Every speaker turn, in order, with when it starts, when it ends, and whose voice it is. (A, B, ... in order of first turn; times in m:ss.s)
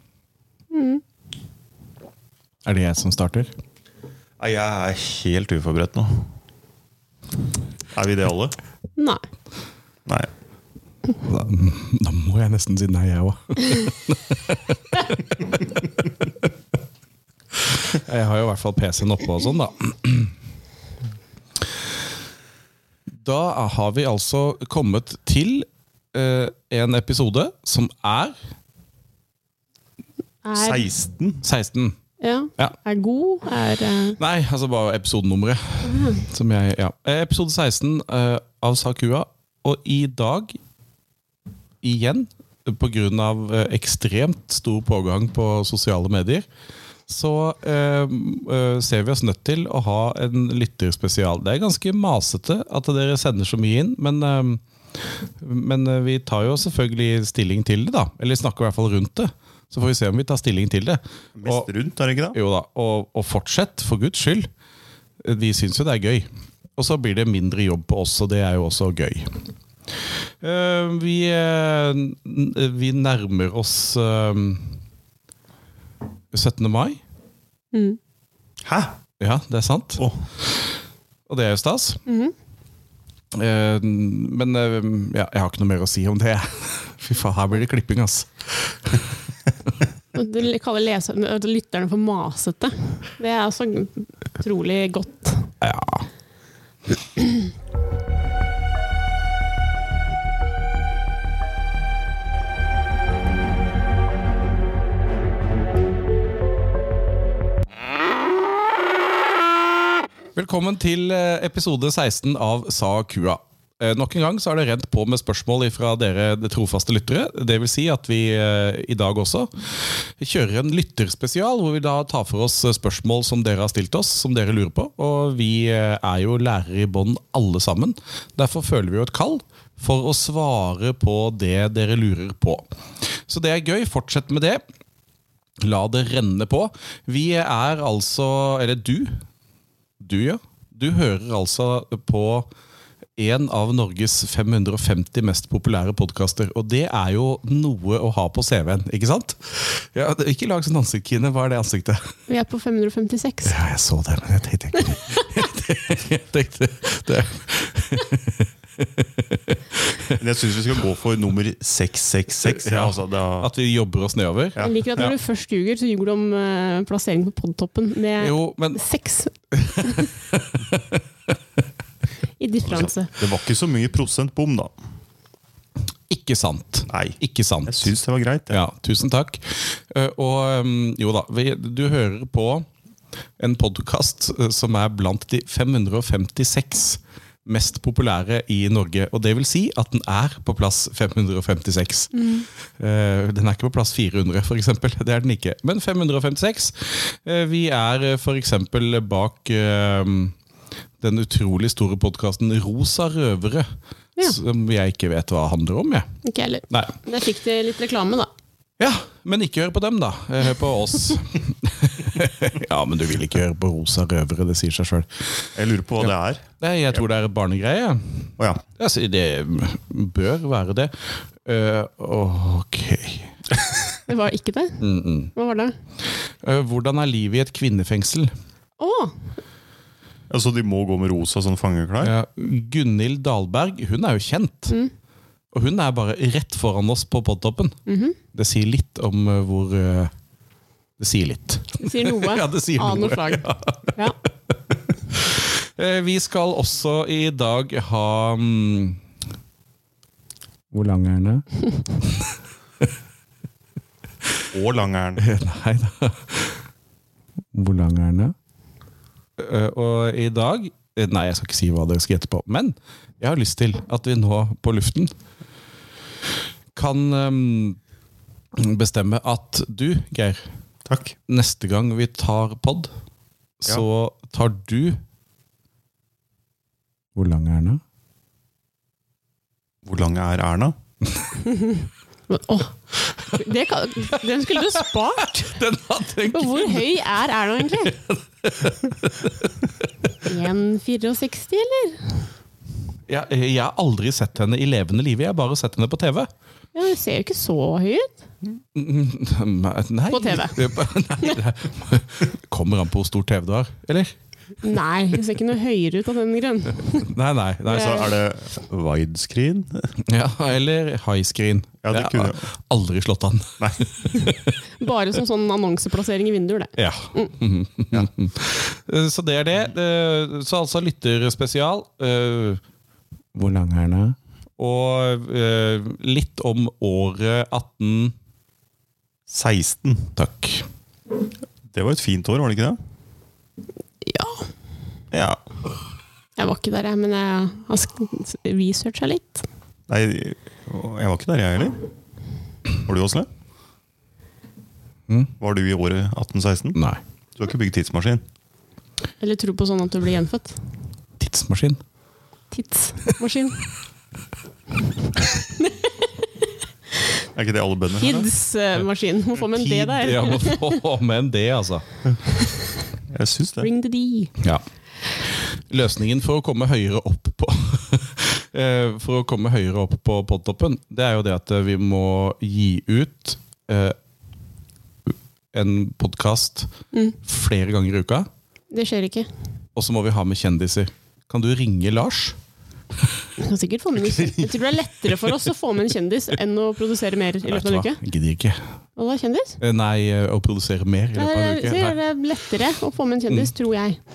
0:00.7-0:01.0 A
0:02.6-0:03.5 B
0:04.4-0:06.3 C
0:07.9-0:08.6 C
0:09.0-0:09.2 A
0:11.2-0:15.7 B
0:17.7-0:20.3 B
0:23.2-0:28.4 B
0:30.4-0:30.9 A
0:30.5-0:31.4 C
0:31.4-0:32.0 B
0:32.2-0:34.2 A
0:34.2-0:40.6 B
0:35.8-0:36.2 A
0:41.8-0:46.5 B
0:47.1-0:54.6 B
0:55.4-1:01.7 B
1:01.4-1:02.4 C
1:02.3-1:04.5 B
1:05.2-1:09.3 B
1:10.4-1:14.8 B
1:16.3-1:17.0 B
1:17.7-1:18.0 A
1:18.6-1:19.0 C
1:19.2-1:20.7 B
1:21.3-1:22.0 B
1:22.1-1:22.3 A
1:23.3-1:29.0 B
1:30.1-1:35.5 A
1:35.6-1:36.1 B
1:50.3-2:12.7 B
2:13.2-2:14.6 B
2:15.6-2:19.2 B
2:20.0-2:22.5 B
2:23.2-2:32.1 B
2:32.3-2:33.6 A
2:33.4-2:40.2 B
2:40.1-2:43.5 C
2:42.4-2:45.1 B
2:44.6-2:49.3 A
2:48.2-2:48.8 B
2:49.5-2:51.0 B
2:49.8-2:50.1 A
2:52.4-2:53.1 A
2:52.6-2:54.7 C
2:56.1-2:57.9 B
2:56.9-2:58.6 C
2:58.5-3:02.7 B
3:03.4-3:20.3 B
3:12.1-3:12.4 A
3:21.0-3:26.1 B
3:26.2-3:28.3 A
3:26.7-3:27.0 B
3:28.8-3:35.4 B
3:35.6-3:37.0 C
3:36.0-3:43.3 B
3:38.4-3:38.6 C
3:44.1-3:44.8 A
3:44.8-3:45.3 B
3:45.3-3:45.8 A
3:46.4-3:48.3 B
3:48.8-3:49.2 A
3:50.3-3:52.1 C
3:52.0-3:54.8 B
3:55.5-3:57.8 B
3:57.8-3:58.2 A
3:58.3-4:00.1 B
4:01.0-4:04.0 B
4:01.8-4:04.2 A
4:05.1-4:09.0 B
4:10.7-4:11.4 B
4:12.0-4:12.3 B
4:14.5-4:15.2 C
4:15.2-4:16.6 B
4:17.5-4:18.3 B
4:19.4-4:25.1 B
4:26.7-4:27.8 B
4:28.6-4:30.4 B
4:30.8-4:31.2 C
4:31.3-4:32.9 B
4:33.6-4:35.0 B
4:37.2-4:37.8 B
4:39.8-4:40.7 C
4:41.4-4:42.7 A
4:43.2-4:45.5 A
4:44.1-4:46.9 B
4:46.3-4:48.0 A
4:48.0-4:49.5 B
4:50.2-4:52.3 A
4:53.1-4:56.3 B
4:56.7-4:58.1 A
4:58.7-5:04.1 B
5:00.1-5:00.7 A
5:04.6-5:07.1 A
5:06.9-5:08.0 B
5:07.7-5:09.9 C
5:07.7-5:08.1 A
5:10.0-5:14.6 B
5:11.8-5:12.4 C
5:14.2-5:17.3 A
5:16.8-5:22.6 B
5:23.3-5:28.1 B
5:29.3-5:30.1 C
5:30.2-5:30.7 B
5:31.7-5:32.8 C
5:34.0-5:34.5 A
5:35.1-5:35.4 C
5:36.4-5:39.4 A
5:39.9-5:41.8 C
5:42.8-5:43.3 C
5:45.1-5:45.3 B
5:45.4-5:46.8 C
5:46.7-5:47.0 B
5:47.4-5:48.2 C
5:49.2-5:50.6 A
5:51.2-5:51.8 B
5:52.5-5:53.7 A
5:55.2-5:56.3 A
5:57.3-5:58.3 C
5:58.0-6:00.8 A
5:59.5-6:01.8 B
6:03.1-6:03.7 C
6:03.6-6:04.3 A
6:05.5-6:14.0 B
6:15.5-6:16.7 B
6:17.2-6:18.3 B
6:18.7-6:19.3 A
6:19.8-6:22.4 B
6:23.4-6:28.0 A
6:27.5-6:28.6 B
6:29.0-6:29.6 A
6:29.6-6:32.0 B
6:31.2-6:34.0 A